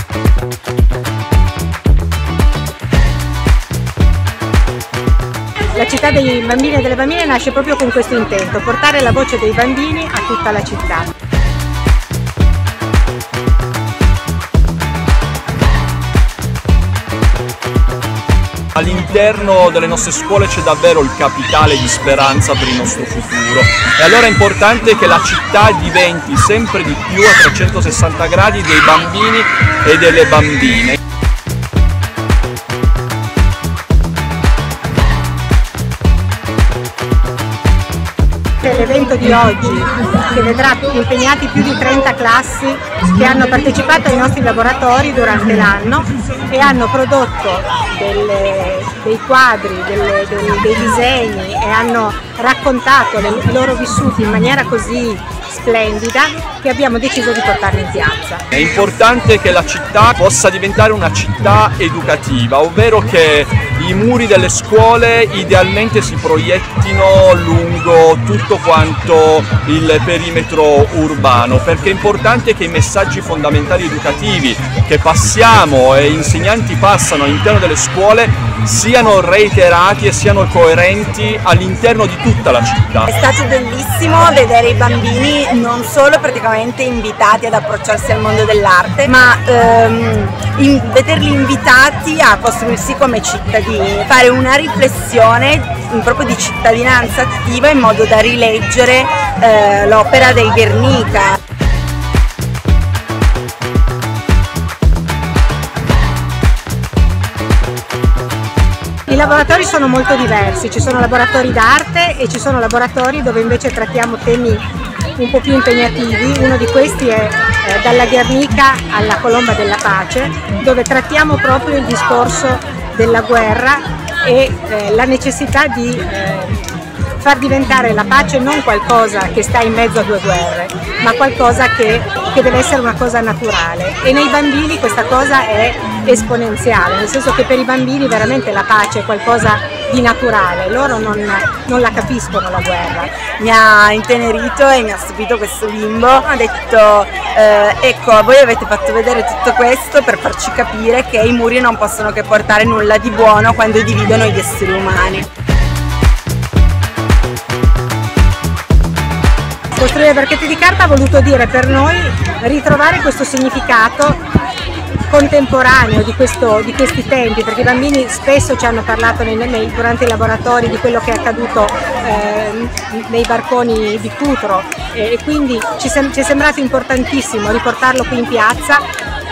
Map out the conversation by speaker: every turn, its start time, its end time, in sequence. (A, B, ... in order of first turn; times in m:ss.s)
0:05.7-0:11.1 A
0:18.7-0:31.0 B
0:38.6-0:58.4 A
0:58.5-1:23.1 B
1:23.1-1:41.4 C
1:49.1-2:23.2 A
2:23.4-2:35.2 C
2:39.7-2:44.2 A
2:45.1-2:58.8 A